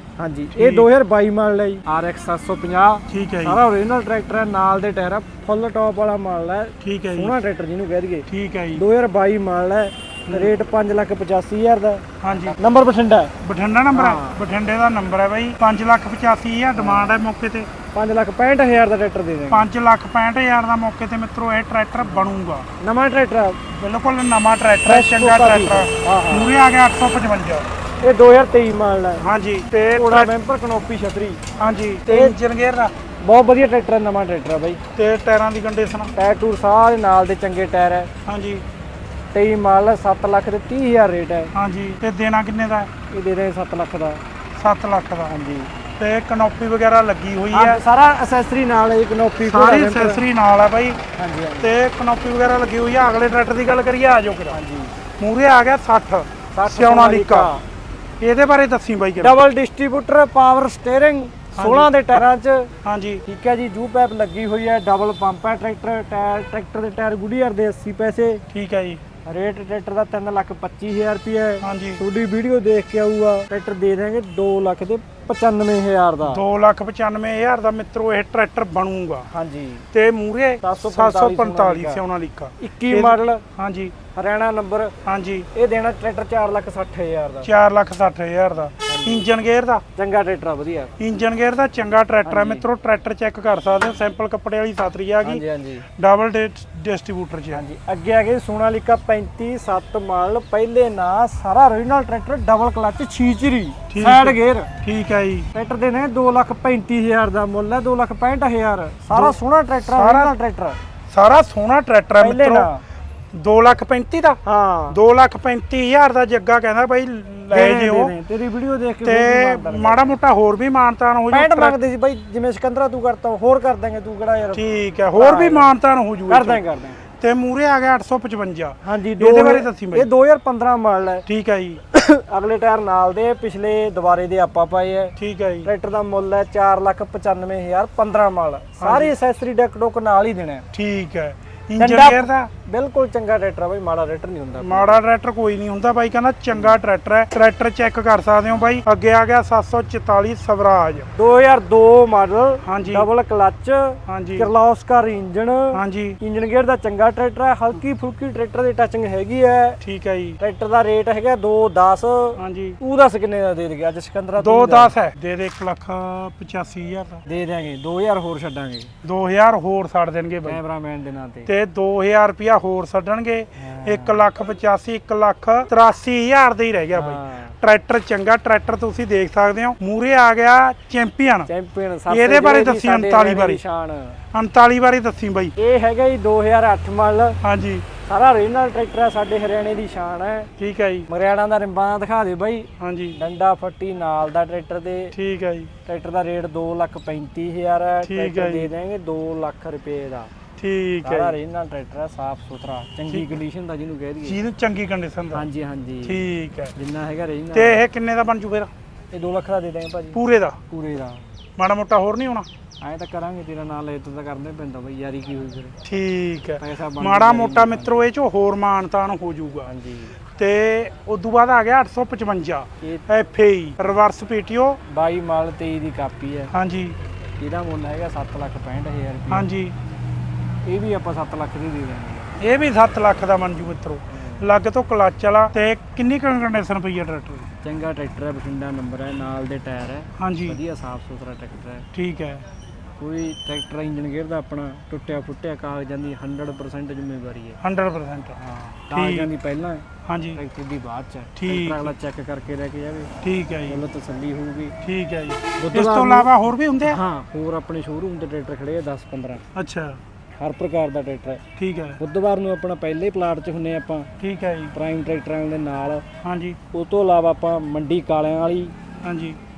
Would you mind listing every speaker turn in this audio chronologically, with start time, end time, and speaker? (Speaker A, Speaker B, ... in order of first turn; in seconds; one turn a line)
Speaker A: 0.2-13.3
Speaker B: 0.5-0.9
Speaker B: 3.1-3.6
Speaker B: 6.8-7.3
Speaker B: 8.3-8.8
Speaker B: 10.3-10.5
Speaker B: 12.2-12.6
Speaker B: 13.4-17.7
Speaker A: 13.9-14.4
Speaker A: 16.8-17.2
Speaker A: 17.9-19.6
Speaker B: 19.5-22.7
Speaker A: 22.0-23.6
Speaker B: 23.7-27.7
Speaker A: 24.9-26.5
Speaker A: 28.0-29.2
Speaker B: 29.2-30.3
Speaker A: 29.9-31.4
Speaker B: 31.6-32.9
Speaker A: 32.1-32.4
Speaker A: 33.2-34.8
Speaker B: 34.9-36.1
Speaker A: 36.2-38.1
Speaker B: 38.2-38.6
Speaker A: 39.3-41.5
Speaker B: 41.5-42.9
Speaker A: 43.1-44.2
Speaker B: 44.6-45.3
Speaker A: 45.3-45.7
Speaker B: 46.0-47.8
Speaker A: 47.5-50.2
Speaker B: 49.4-51.0
Speaker A: 51.1-51.7
Speaker B: 51.6-54.5
Speaker A: 54.5-54.9
Speaker B: 55.2-57.5
Speaker A: 56.5-57.6
Speaker B: 58.2-59.4
Speaker A: 59.2-62.7
Speaker B: 61.5-62.2
Speaker B: 62.8-63.2
Speaker A: 63.2-68.4
Speaker B: 68.5-69.0
Speaker A: 69.2-76.4
Speaker B: 71.6-72.0
Speaker B: 76.2-79.3
Speaker A: 79.3-79.8
Speaker B: 79.9-83.9
Speaker A: 80.6-82.0
Speaker A: 82.6-83.4
Speaker A: 84.1-84.9
Speaker B: 85.0-85.5
Speaker A: 85.5-87.5
Speaker B: 87.4-89.8
Speaker A: 88.9-89.2
Speaker A: 89.9-90.9
Speaker B: 91.0-95.4
Speaker A: 92.2-92.6
Speaker A: 95.2-95.9
Speaker B: 96.0-97.6
Speaker A: 97.5-104.7
Speaker B: 103.9-105.5
Speaker A: 105.5-110.8
Speaker B: 109.1-110.3
Speaker B: 111.1-112.7
Speaker A: 112.2-112.8
Speaker B: 113.3-114.4
Speaker A: 114.4-115.0
Speaker B: 114.9-118.1
Speaker A: 117.5-120.2
Speaker B: 119.0-121.8
Speaker A: 121.3-124.6
Speaker B: 124.5-126.6
Speaker A: 125.2-125.7
Speaker A: 126.3-127.0
Speaker B: 127.2-130.1
Speaker A: 128.8-131.2
Speaker B: 131.3-131.8
Speaker A: 131.9-140.6
Speaker B: 135.2-135.7
Speaker B: 138.8-139.1
Speaker B: 140.7-142.5
Speaker A: 141.8-145.0
Speaker B: 144.6-151.1
Speaker A: 151.1-159.8
Speaker B: 152.6-153.1
Speaker B: 154.1-154.5
Speaker B: 155.7-156.2
Speaker B: 159.8-160.4
Speaker A: 160.4-164.9
Speaker B: 162.4-162.8
Speaker B: 164.4-167.2
Speaker A: 167.2-168.9
Speaker B: 169.0-170.6
Speaker A: 170.4-171.5
Speaker B: 171.4-181.5
Speaker A: 173.6-174.3
Speaker A: 176.9-177.5
Speaker A: 181.5-184.2
Speaker B: 182.1-183.6
Speaker B: 184.3-185.5
Speaker A: 185.6-187.4
Speaker B: 187.4-187.9
Speaker A: 188.0-190.5
Speaker B: 190.6-191.1
Speaker A: 191.1-195.1
Speaker B: 192.8-193.2
Speaker B: 195.1-195.7
Speaker A: 195.8-200.3
Speaker B: 198.0-198.7
Speaker B: 200.6-201.3
Speaker A: 201.0-204.4
Speaker B: 203.1-203.4
Speaker B: 204.2-205.4
Speaker A: 205.3-207.8
Speaker B: 206.0-206.7
Speaker B: 207.5-208.7
Speaker A: 209.1-211.2
Speaker B: 210.1-210.6
Speaker B: 211.6-212.5
Speaker A: 212.8-215.8
Speaker B: 215.8-219.7
Speaker A: 216.6-218.1
Speaker A: 219.7-220.2
Speaker B: 220.3-224.8
Speaker A: 224.9-226.5
Speaker B: 226.5-227.0
Speaker A: 227.4-229.5
Speaker B: 229.3-229.7
Speaker A: 230.7-232.3
Speaker B: 232.4-237.5
Speaker A: 234.1-234.4
Speaker A: 237.6-241.8
Speaker B: 240.2-240.6
Speaker B: 241.9-242.4
Speaker A: 243.0-247.6
Speaker B: 247.6-248.4
Speaker A: 248.4-253.1
Speaker B: 248.9-249.3
Speaker B: 250.1-250.4
Speaker B: 251.4-251.9
Speaker B: 253.2-253.8
Speaker A: 253.7-254.7
Speaker B: 254.8-257.0
Speaker A: 255.6-256.3
Speaker A: 256.8-259.4
Speaker B: 259.5-260.0
Speaker A: 260.4-261.4
Speaker B: 261.6-262.0
Speaker A: 262.0-264.1
Speaker B: 264.2-264.7
Speaker A: 264.7-266.0
Speaker B: 266.2-266.6
Speaker A: 266.7-268.7
Speaker B: 269.0-269.4